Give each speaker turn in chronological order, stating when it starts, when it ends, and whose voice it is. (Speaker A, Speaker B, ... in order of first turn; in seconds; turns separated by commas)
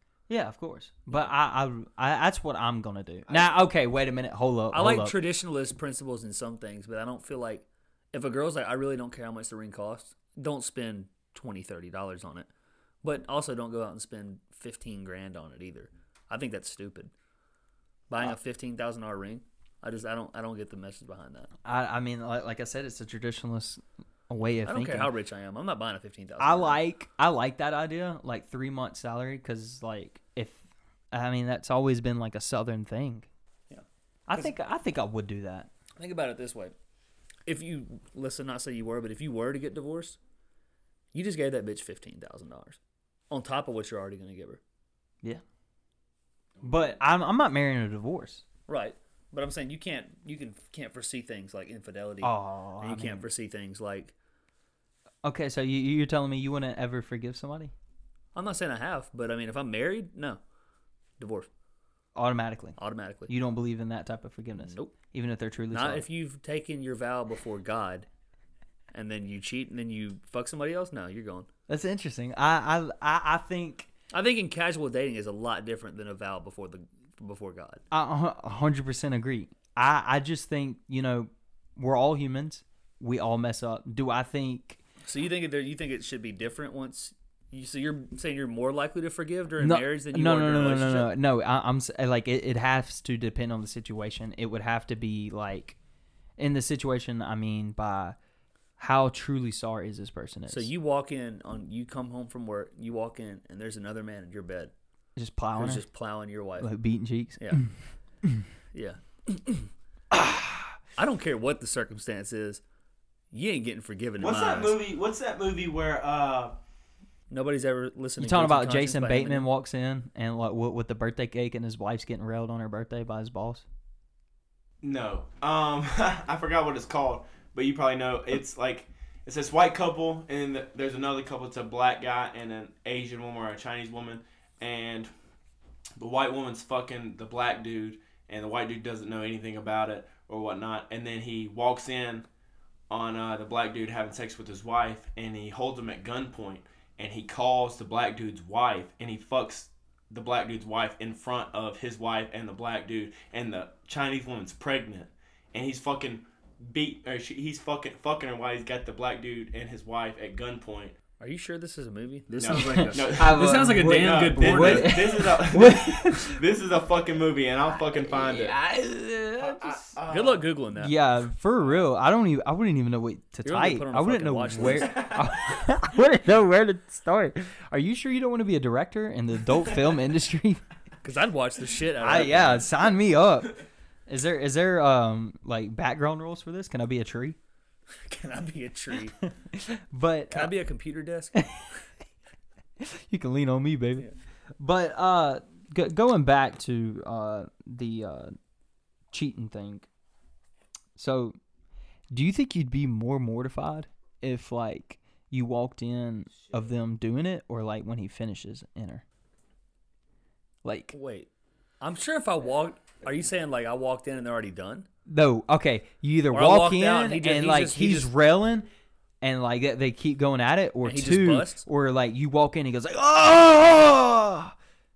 Speaker A: 0.3-5.2, Speaker B: 4.7-12.5, Speaker B: 13.0-17.1, Speaker B: 18.1-21.5, Speaker A: 21.6-25.1, Speaker B: 24.6-26.8, Speaker A: 26.4-33.3, Speaker B: 33.7-34.5, Speaker A: 34.3-35.7, Speaker B: 36.0-36.8, Speaker B: 37.5-40.2, Speaker B: 41.1-42.8, Speaker B: 43.3-44.6, Speaker C: 46.6-46.9, Speaker A: 46.6-48.4, Speaker B: 48.7-54.1, Speaker A: 52.2-53.2, Speaker A: 55.2-57.7, Speaker B: 58.3-60.4, Speaker B: 61.2-61.5, Speaker A: 62.2-66.1, Speaker B: 62.8-63.3, Speaker B: 64.6-64.9, Speaker B: 65.7-68.1, Speaker B: 68.9-71.5, Speaker A: 71.7-73.9, Speaker B: 74.1-77.8, Speaker A: 77.9-84.8, Speaker B: 85.0-91.1, Speaker A: 89.6-95.8, Speaker A: 96.4-98.2, Speaker A: 98.8-100.7, Speaker B: 100.5-104.7, Speaker A: 105.2-105.8, Speaker B: 105.6-106.7, Speaker A: 106.6-107.7, Speaker B: 108.7-109.7, Speaker A: 110.1-110.7, Speaker B: 111.0-112.6, Speaker B: 113.3-114.8, Speaker C: 114.2-116.5, Speaker B: 117.3-119.5, Speaker A: 118.2-123.6, Speaker C: 124.8-135.1, Speaker C: 136.0-142.2, Speaker C: 142.9-160.9, Speaker B: 161.2-165.0, Speaker C: 162.4-168.6, Speaker A: 162.5-166.4, Speaker A: 167.9-169.9, Speaker C: 169.4-170.5, Speaker B: 170.1-170.9, Speaker A: 170.8-180.6, Speaker B: 173.4-174.9, Speaker C: 174.8-175.5, Speaker B: 181.0-182.7, Speaker A: 182.0-187.4, Speaker B: 188.1-189.2, Speaker A: 189.2-190.5, Speaker B: 190.3-191.4, Speaker A: 191.3-191.7, Speaker A: 192.8-194.1, Speaker A: 194.6-198.3, Speaker A: 199.1-199.9, Speaker A: 201.0-201.4, Speaker A: 202.1-209.0, Speaker A: 210.6-211.0, Speaker B: 210.9-211.3, Speaker B: 211.8-214.9, Speaker A: 215.1-218.7, Speaker B: 216.3-218.1, Speaker A: 219.2-224.5, Speaker B: 220.8-221.7